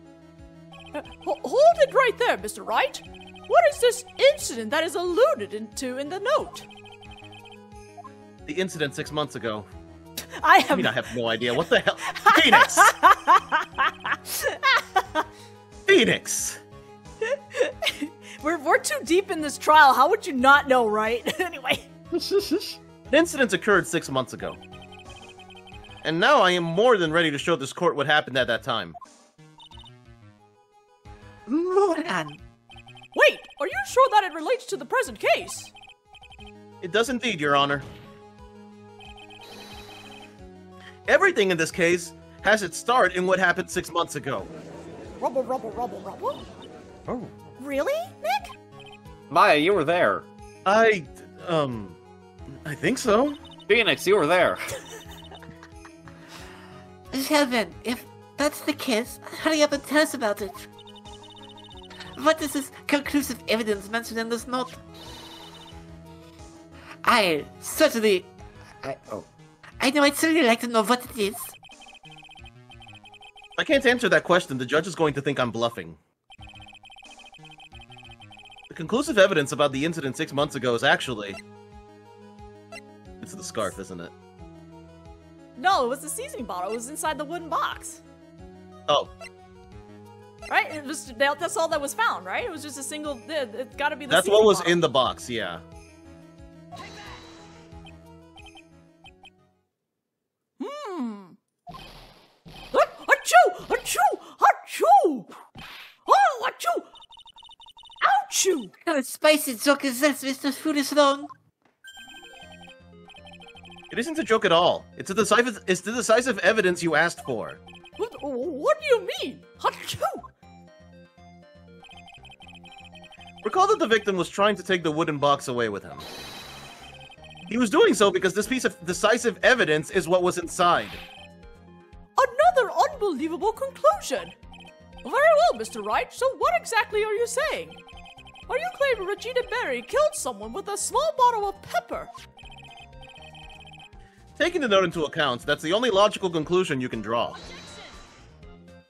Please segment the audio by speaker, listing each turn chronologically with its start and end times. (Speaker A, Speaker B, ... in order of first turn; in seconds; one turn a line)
Speaker A: 0.9-6.7
Speaker B: 8.4-9.7
Speaker A: 10.2-11.0
Speaker B: 10.7-12.9
Speaker A: 12.1-15.2
Speaker B: 15.9-16.6
Speaker A: 17.2-21.9
Speaker C: 22.1-22.8
Speaker B: 23.1-24.6
Speaker B: 26.0-28.9
Speaker D: 31.5-32.4
Speaker A: 33.1-35.7
Speaker B: 36.8-37.8
Speaker B: 41.1-44.5
Speaker A: 45.2-46.4
Speaker B: 47.1-47.3
Speaker A: 47.6-48.5
Speaker C: 49.3-50.2
Speaker B: 50.6-52.0
Speaker B: 52.6-53.4
Speaker C: 53.7-54.8
Speaker D: 57.1-60.7
Speaker D: 62.1-64.8
Speaker D: 67.0-68.3
Speaker C: 69.0-69.3
Speaker D: 69.8-71.5
Speaker B: 73.6-76.0
Speaker B: 78.7-81.4
Speaker B: 83.2-84.1
Speaker A: 85.6-88.0
Speaker A: 90.5-94.8
Speaker B: 94.1-95.6
Speaker A: 100.6-101.4
Speaker A: 102.7-105.3
Speaker A: 106.0-106.9
Speaker A: 108.0-108.7
Speaker D: 108.8-111.3
Speaker B: 113.9-117.6
Speaker A: 118.0-120.3
Speaker B: 123.4-126.0
Speaker B: 127.5-131.0
Speaker A: 132.2-134.3
Speaker A: 135.0-137.8
Speaker A: 138.5-142.1
Speaker B: 144.4-147.4